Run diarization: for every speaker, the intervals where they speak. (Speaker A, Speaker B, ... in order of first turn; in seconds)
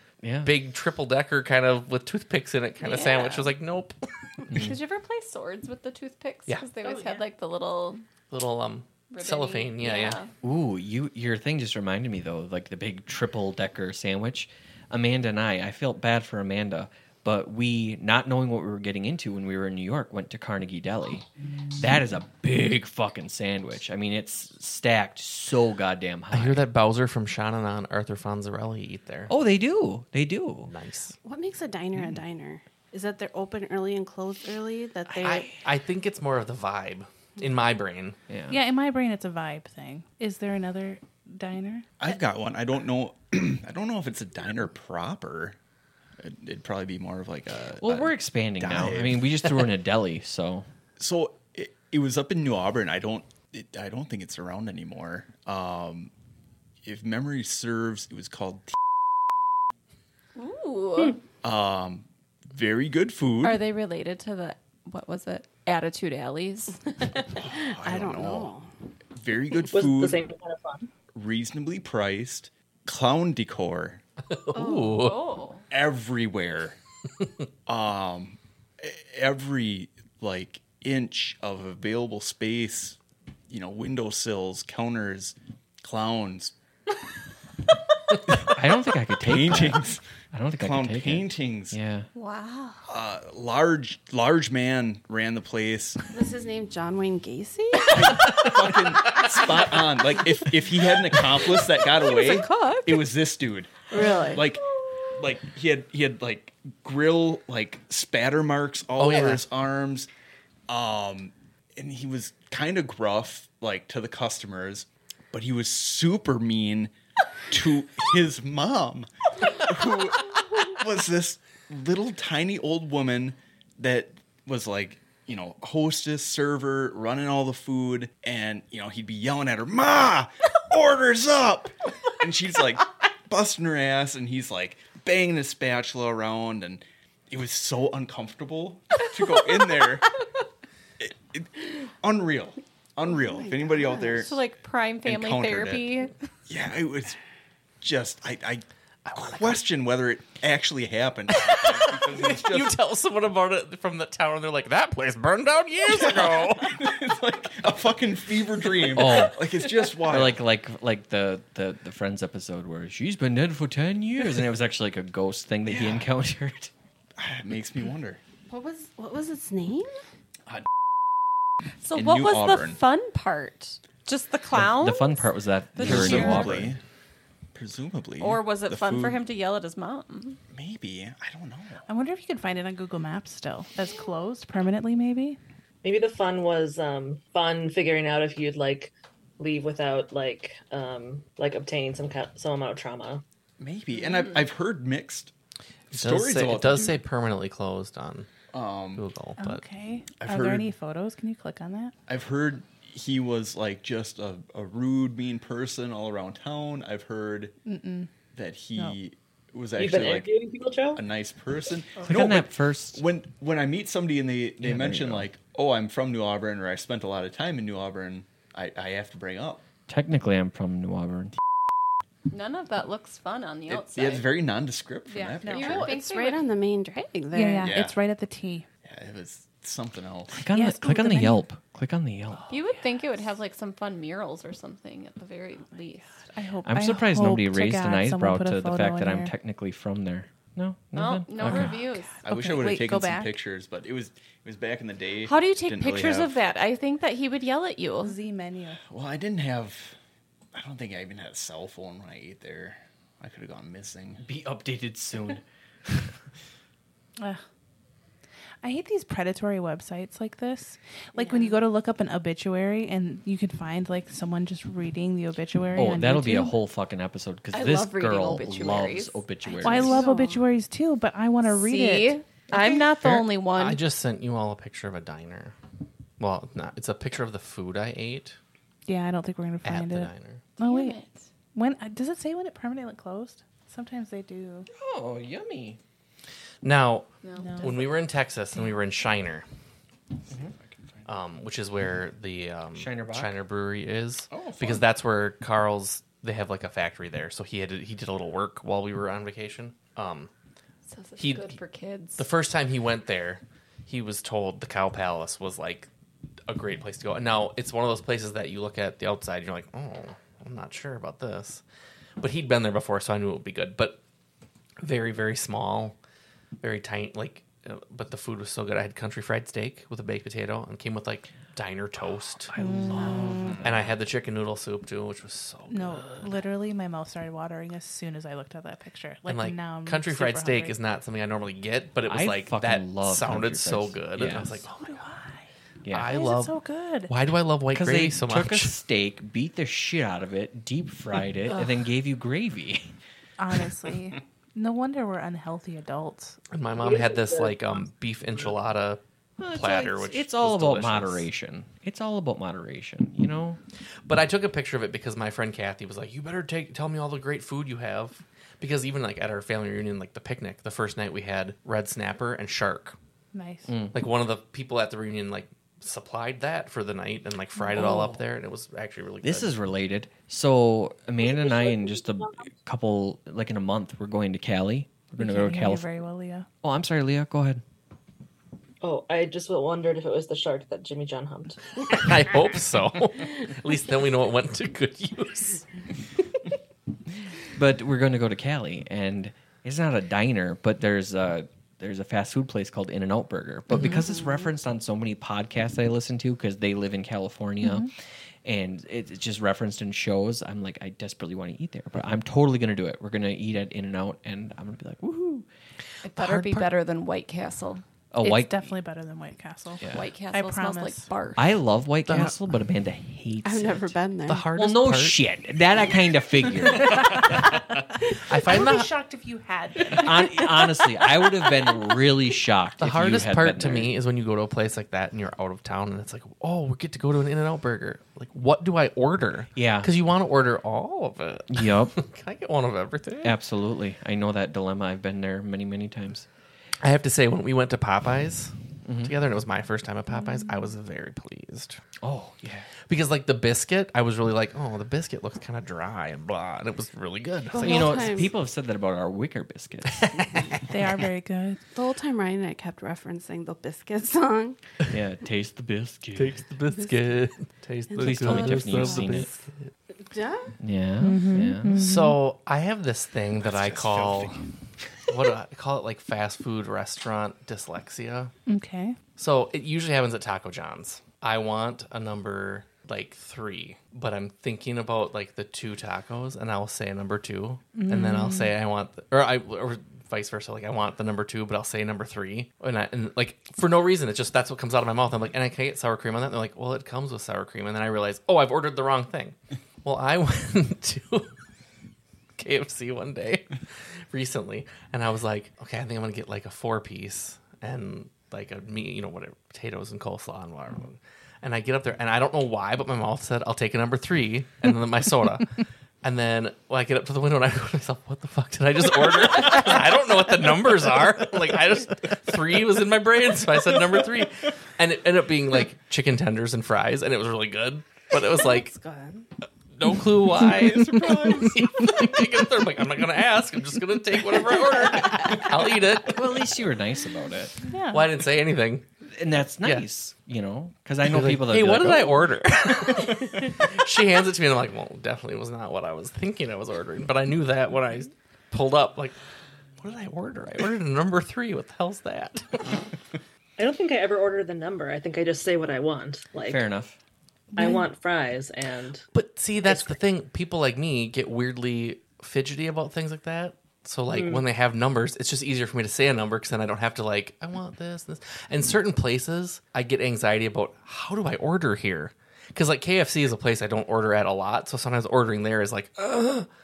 Speaker A: 0.2-0.6, 10.4-26.6, 29.3-30.7, 38.3-38.6, 47.8-50.7, 88.4-92.1, 158.9-166.7, 174.5-176.7, 212.1-213.0, 214.6-215.3, 219.9-221.3, 230.4-232.5, 236.6-241.8, 254.2-256.1, 265.7-270.0, 284.7-285.8, 292.7-293.3, 323.0-323.5, 332.1-334.6, 335.8-336.1, 337.7-342.9, 349.4-353.6, 363.7-364.0, 367.7-368.2, 369.2-375.9, 376.6-377.6, 387.5-397.9, 398.4-405.5, 408.1-408.6, 409.8-410.1, 411.4-413.9, 414.5-417.2, 419.9-423.9, 429.6-429.9, 431.5-432.0, 433.2-436.3, 438.8-439.1, 442.0-442.7, 447.6-450.1, 454.9-456.4, 458.0-459.3, 460.6-461.8, 526.0-527.6, 529.0-532.3, 546.5-547.0
Speaker B: 0.4-4.5, 8.3-10.2, 26.3-29.3, 30.6-31.1, 35.2-38.2, 74.2-75.2, 109.0-109.4, 149.1-149.6, 151.4-156.8, 159.0-159.3, 195.9-198.3, 198.9-199.6, 272.5-275.5, 276.2-278.4, 279.6-280.4, 286.6-289.4, 291.1-300.3, 301.2-301.5, 302.2-305.9, 306.5-311.6, 312.2-314.0, 314.8-315.9, 316.6-326.4, 329.3-335.0, 335.9-338.7, 346.5-351.2, 354.1-363.0, 363.9-369.5, 381.9-385.6, 406.1-406.6, 412.1-412.3, 414.3-415.2, 418.2-418.9, 422.8-433.4, 436.8-441.8, 442.9-448.3, 449.9-450.6, 456.1-459.7, 461.7-464.4, 465.1-468.3, 469.2-491.3, 492.4-518.7, 519.7-526.3, 527.9-528.9, 531.0-539.1, 539.8-542.8, 549.1-566.5
Speaker C: 2.8-3.5, 4.5-8.0, 9.1-10.3, 60.4-61.2, 63.4-67.3, 74.6-75.6, 92.1-92.8, 102.0-103.0, 144.1-146.2, 171.8-176.6, 178.2-180.4, 222.3-224.3, 225.4-226.5, 232.5-236.1, 240.9-242.2, 245.2-248.1, 267.5-270.1, 271.4-273.8, 280.6-281.2, 287.2-287.8, 300.9-302.3, 406.0-407.8, 409.9-411.5
Speaker D: 6.8-7.2, 38.5-41.9, 181.9-185.4, 199.4-201.9, 207.7-208.1, 225.1-225.9, 227.3-228.7, 230.5-231.4, 236.3-239.3, 241.4-243.3, 248.0-248.8, 258.6-266.6, 269.6-273.2, 278.9-281.0, 281.5-284.7, 287.4-287.9, 322.6-323.6, 325.7-330.8, 334.7-335.5, 336.1-337.1, 343.4-346.4, 363.3-363.7, 375.2-376.5, 397.6-397.9, 408.2-411.1, 418.3-421.4, 450.7-451.6, 461.0-462.2, 468.5-469.0, 477.7-478.5, 527.7-528.0
Speaker E: 31.2-35.5, 67.4-68.7, 74.5-75.0, 96.1-98.5, 103.9-104.5, 143.1-144.3, 168.5-169.9, 225.7-227.8, 261.1-261.6, 269.9-270.4, 413.4-414.5, 447.5-448.3, 451.7-454.6, 457.9-459.3, 460.0-460.6, 518.1-519.3
Speaker F: 42.0-45.6, 46.2-49.5, 51.0-56.1, 56.8-58.7, 61.4-63.6, 67.4-68.5, 69.1-70.3, 71.1-74.0, 75.7-76.8, 77.7-83.0, 83.5-86.5, 89.2-90.0, 90.6-91.8, 92.9-96.0, 97.9-110.1, 110.7-116.9, 117.5-140.1, 141.0-144.4, 145.0-145.9, 146.5-147.2, 147.8-148.6, 149.1-152.8, 155.9-160.4, 165.7-166.1, 167.2-168.2, 171.9-172.8, 175.8-176.8, 177.5-179.2, 180.5-181.8, 193.6-195.3, 195.9-197.0, 198.5-199.0, 200.2-200.7, 202.1-207.5, 208.3-210.3, 210.9-219.6, 223.7-225.9, 227.6-227.9, 228.8-230.4, 242.2-246.3, 248.9-249.9, 250.5-254.2, 290.3-291.1, 294.3-294.9, 323.4-323.6, 463.4-464.5, 520.3-521.9
Speaker G: 69.7-70.9, 185.8-193.2, 209.7-211.1, 346.8-347.6, 371.2-372.2, 378.8-381.9, 543.6-546.7, 547.5-549.0, 549.6-550.0, 554.1-554.5